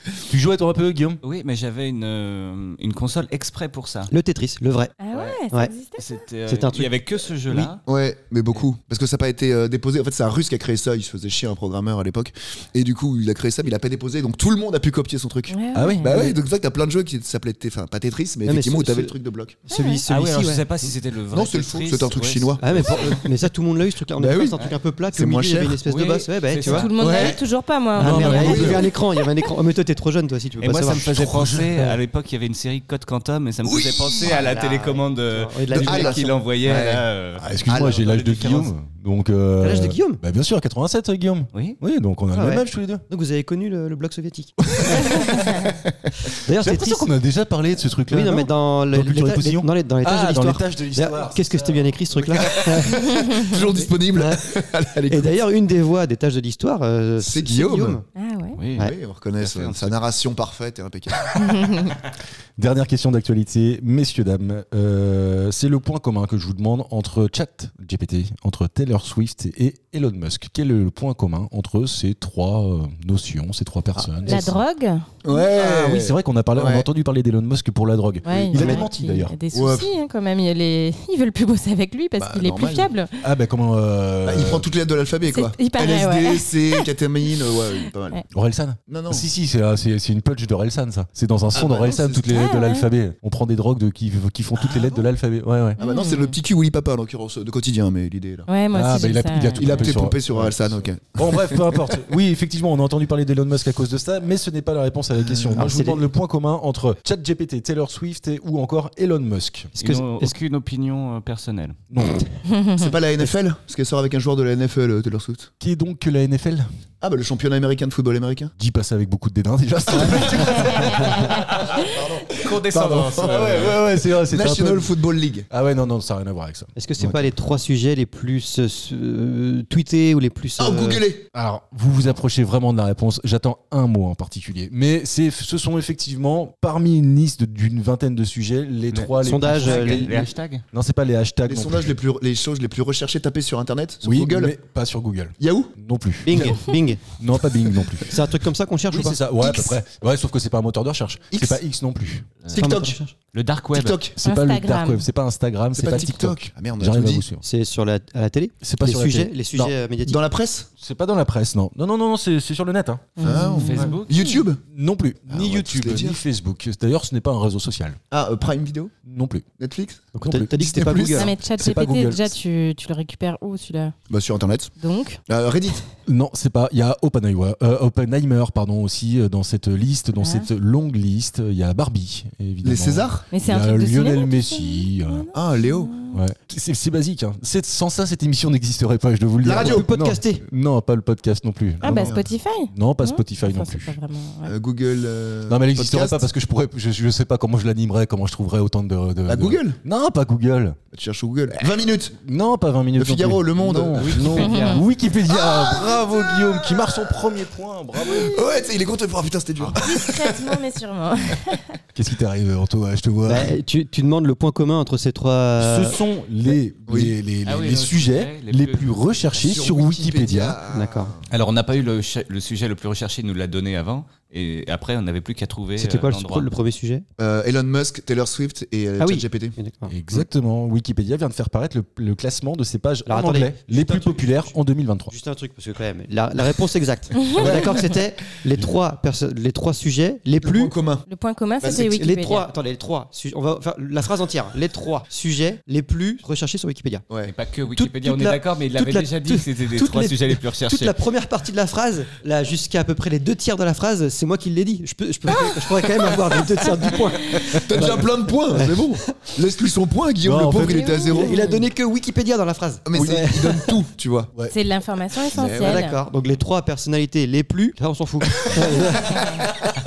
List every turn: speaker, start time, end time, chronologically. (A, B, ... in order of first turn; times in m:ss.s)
0:00.2-0:01.2 A
0:01.2-0:04.1 B
0:04.1-0:04.9 C
0:05.0-0:06.1 D
0:05.1-0:05.4 B
0:06.0-0:07.8 B
0:06.5-0:07.7 C
0:07.8-0:19.6 E
0:15.5-0:16.1 D
0:15.7-0:16.3 A
0:18.4-0:20.6 C
0:19.7-0:20.0 D
0:20.1-0:23.0 B
0:21.3-0:23.2 E
0:22.6-0:26.9 C
0:24.2-0:24.6 E
0:25.1-0:25.8 E
0:25.9-0:27.4 B
0:26.6-0:28.8 D
0:27.0-0:27.4 E
0:28.0-0:31.1 C
0:28.0-0:28.8 A
0:28.2-0:28.9 E
0:30.6-0:37.4 B
0:31.2-0:31.8 A
0:33.6-0:34.4 E
0:34.2-0:36.3 C
0:35.7-0:37.1 E
0:37.4-0:43.0 A
0:37.6-0:38.6 E
0:38.0-0:38.7 B
0:39.6-0:40.2 C
0:41.5-0:41.8 B
0:42.3-0:45.2 C
0:44.7-0:45.7 A
0:46.4-0:47.1 C
0:46.5-0:52.0 A
0:48.1-0:54.4 C
0:52.2-0:55.3 E
0:55.1-0:58.0 C
0:57.2-0:58.0 E
0:58.1-0:58.6 D
0:58.6-1:00.0 B
0:58.8-1:01.4 E
1:01.4-1:01.9 D
1:02.6-1:14.6 A
1:14.2-1:15.1 D
1:15.2-1:16.8 E
1:15.4-1:19.3 A
1:18.2-1:23.1 D
1:18.5-1:18.8 E
1:19.5-1:19.9 E
1:22.2-1:22.9 E
1:23.2-1:24.7 A
1:24.2-1:28.2 E
1:25.3-1:26.9 D
1:28.3-1:35.8 A
1:28.9-1:29.3 E
1:31.5-1:32.3 E
1:32.3-1:32.8 D
1:34.6-1:35.0 E
1:35.8-1:36.4 D
1:35.8-1:38.5 E
1:38.5-1:39.9 D
1:38.7-1:49.7 A
1:39.6-1:41.9 E
1:45.5-1:46.0 C
1:49.8-1:50.3 C
1:49.8-1:51.8 B
1:51.9-1:52.2 A
1:52.5-1:52.8 D
1:52.7-1:55.5 E
1:55.6-1:56.7 A
1:57.0-1:58.5 E
1:58.6-2:01.3 A
2:00.6-2:01.2 D
2:01.2-2:03.8 B
2:01.7-2:05.5 E
2:03.2-2:05.0 A
2:05.5-2:07.3 A
2:06.8-2:11.0 C
2:10.6-2:11.3 E
2:11.3-2:22.0 A
2:18.9-2:20.6 B
2:19.2-2:20.3 C
2:21.5-2:24.5 E
2:24.0-2:28.3 A
2:25.4-2:25.7 E
2:26.2-2:27.0 C
2:28.1-2:29.2 C
2:28.9-2:32.7 A
2:31.3-2:31.6 E
2:32.5-2:33.1 C
2:32.6-2:32.9 E
2:33.3-2:34.0 B
2:33.7-2:34.2 E
2:34.2-2:37.4 A
2:34.2-2:35.0 D
2:35.7-2:37.2 E
2:37.4-2:40.2 C
2:38.6-2:39.7 A
2:40.0-2:40.7 E
2:40.8-2:43.3 A
2:43.2-2:44.4 D
2:43.2-2:44.6 E
2:43.6-2:44.1 B
2:44.7-2:48.0 A
2:45.3-2:46.2 E
2:48.1-2:48.9 E
2:49.0-2:49.4 A
2:49.6-2:51.3 E
2:50.1-2:51.3 C
2:50.2-2:51.0 A
2:51.2-2:54.0 D
2:51.5-2:52.3 A
2:54.1-2:54.7 E
2:54.8-2:55.2 D
2:55.3-2:55.8 E
2:56.0-3:05.3 A
3:00.2-3:00.5 D
3:02.6-3:03.3 E
3:03.3-3:06.2 D
3:05.3-3:05.9 E
3:06.1-3:14.0 A
3:09.4-3:09.8 E
3:09.5-3:10.4 C
3:11.8-3:14.5 D
3:11.8-3:12.2 E
3:14.4-3:16.2 E
3:15.5-3:20.8 A
3:19.3-3:19.8 E
3:20.9-3:22.2 E
3:22.2-3:28.4 A
3:23.0-3:24.4 E
3:24.0-3:24.8 B
3:24.4-3:24.8 D
3:25.3-3:27.2 E
3:28.0-3:30.6 E
3:29.8-3:31.7 D
3:31.9-3:33.5 A
3:33.2-3:36.0 C
3:35.6-3:40.6 A
3:36.9-3:37.1 E
3:37.4-3:39.3 B
3:39.4-3:41.2 E
3:40.7-3:41.1 C
3:41.3-3:46.5 B
3:45.8-3:47.0 C
3:47.2-3:49.5 E
3:49.0-3:50.2 C
3:49.9-3:55.1 A
3:53.1-3:54.5 C
3:55.1-4:00.7 C
3:57.4-3:57.8 E
4:00.4-4:01.1 E
4:01.1-4:02.5 D
4:01.6-4:01.9 E
4:01.6-4:07.0 C
4:07.2-4:11.0 B
4:07.7-4:19.1 C
4:17.5-4:21.4 E
4:20.2-4:21.0 A
4:20.6-4:21.7 D
4:21.1-4:23.8 C
4:22.9-4:24.3 E
4:22.9-4:23.3 A
4:24.5-4:26.0 D
4:25.3-4:25.8 E
4:25.4-4:29.2 C
4:29.1-4:29.4 D